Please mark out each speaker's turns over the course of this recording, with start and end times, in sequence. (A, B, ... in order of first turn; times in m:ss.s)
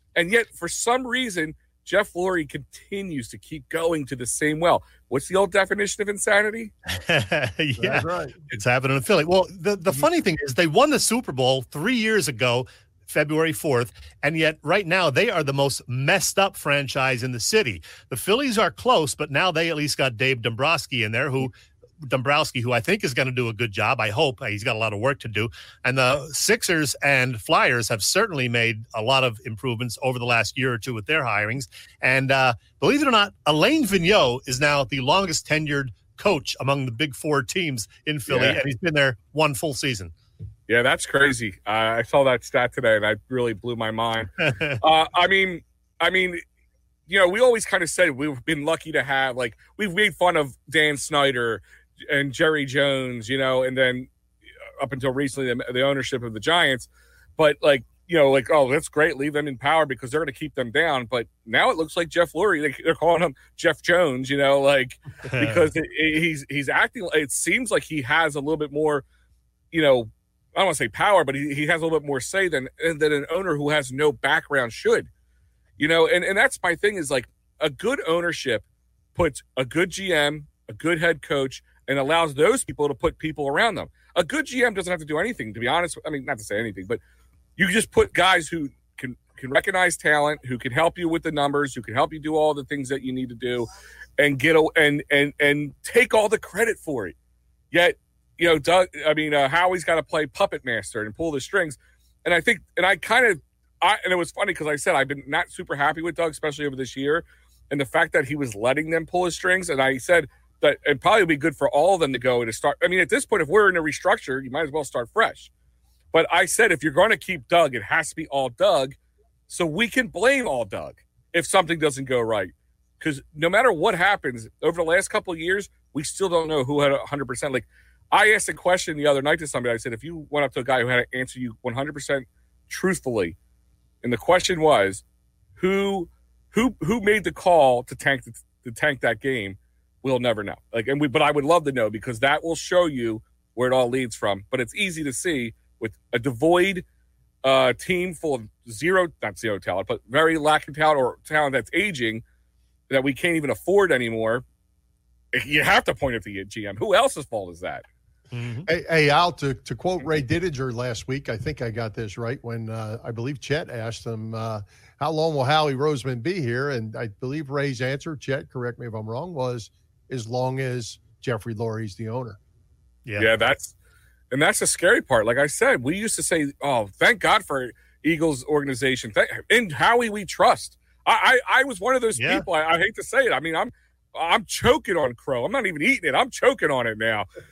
0:00.2-0:06.7 A
0:06.9-0:40.1 B
0:07.8-0:08.4 C
0:38.3-0:38.6 A
0:40.7-0:46.4 A
0:44.5-0:44.8 B
0:47.1-0:54.1 A
0:54.8-1:09.0 A
1:05.3-1:05.6 B
1:09.7-1:15.1 A
1:15.8-1:27.0 A
1:27.6-1:37.2 A
1:37.7-1:55.5 A
1:56.1-1:59.0 A
1:59.5-2:13.4 A
2:14.0-2:15.0 A
2:15.6-2:26.8 A
2:27.4-2:32.2 A
2:32.9-2:34.4 A
2:35.3-2:37.8 A
2:38.3-2:38.7 B
2:38.7-2:52.4 C
2:53.2-2:53.7 A
2:54.3-3:07.3 A
3:02.2-3:02.5 B